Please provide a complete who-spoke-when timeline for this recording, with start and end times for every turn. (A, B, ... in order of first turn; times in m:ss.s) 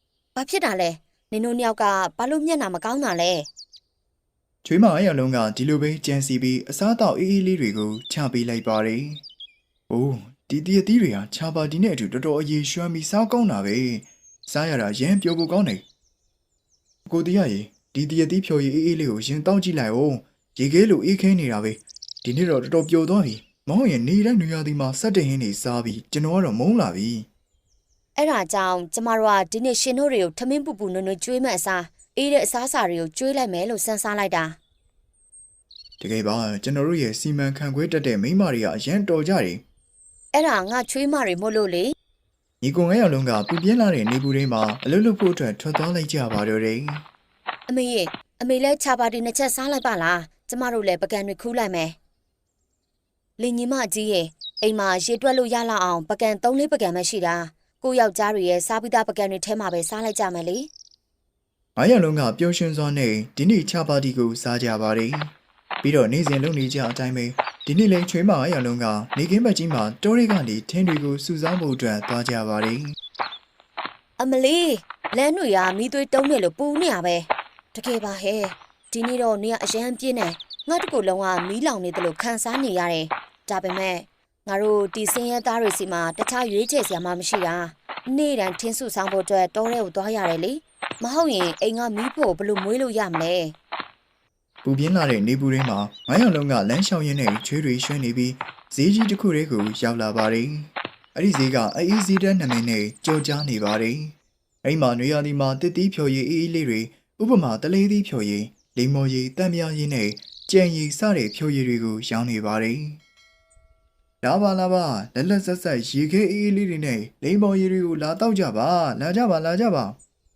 0:00.3-0:03.5 A
0:04.6-0:09.2 B
0:09.9-0:15.8 B
0:17.1-0:27.3 B
0:28.2-0:34.6 A
0:36.0-0:39.6 B
0:40.3-0:41.9 A
0:42.6-0:47.0 B
0:47.7-0:52.0 A
0:53.4-1:00.7 A
1:01.8-1:13.0 B
1:14.2-1:33.6 A
1:34.6-1:53.0 B
1:54.2-2:00.0 B